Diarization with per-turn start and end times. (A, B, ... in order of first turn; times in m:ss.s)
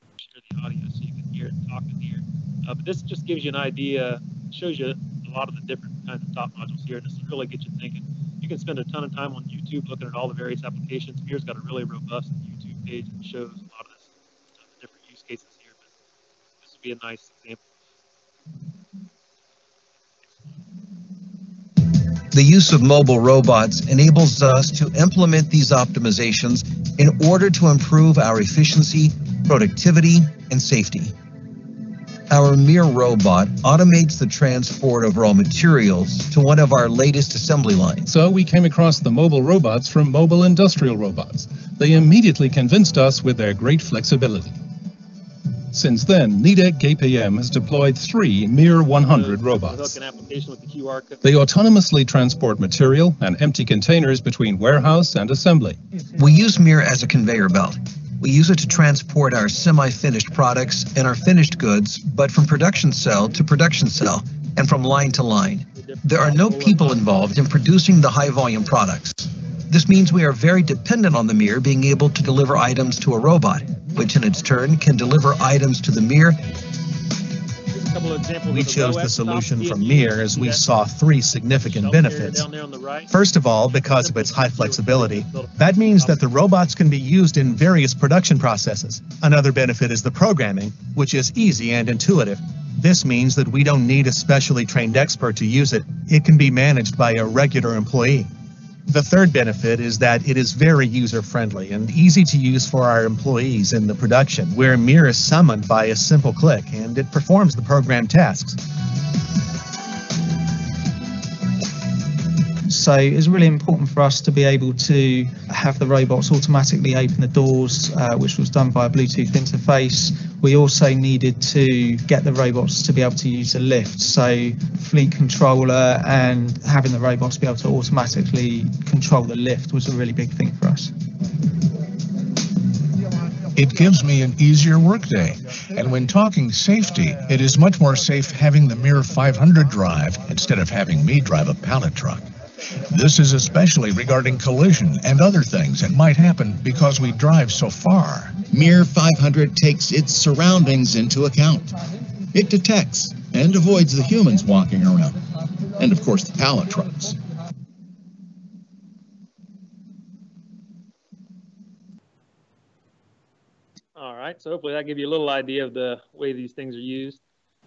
0:00.2-0:14.1 A
0:14.7-0:15.8 A
0:16.6-0:17.6 A
0:22.3-0:31.1 B
0:32.3-0:38.1 B
0:38.1-0:44.6 C
0:45.7-0:50.0 C
0:49.0-0:51.2 A
0:51.2-0:55.8 C
0:56.2-1:16.5 B
1:05.8-1:07.4 A
1:17.7-1:20.7 A
1:18.5-1:22.5 D
1:21.6-1:23.1 A
1:23.1-1:38.3 D
1:23.7-1:26.3 A
1:38.9-1:48.6 D
1:52.6-2:10.9 E
2:13.5-2:22.2 F
2:22.9-2:28.4 F
2:28.4-2:31.7 G
2:32.3-2:35.2 G
2:35.8-2:37.2 G
2:43.9-2:47.2 A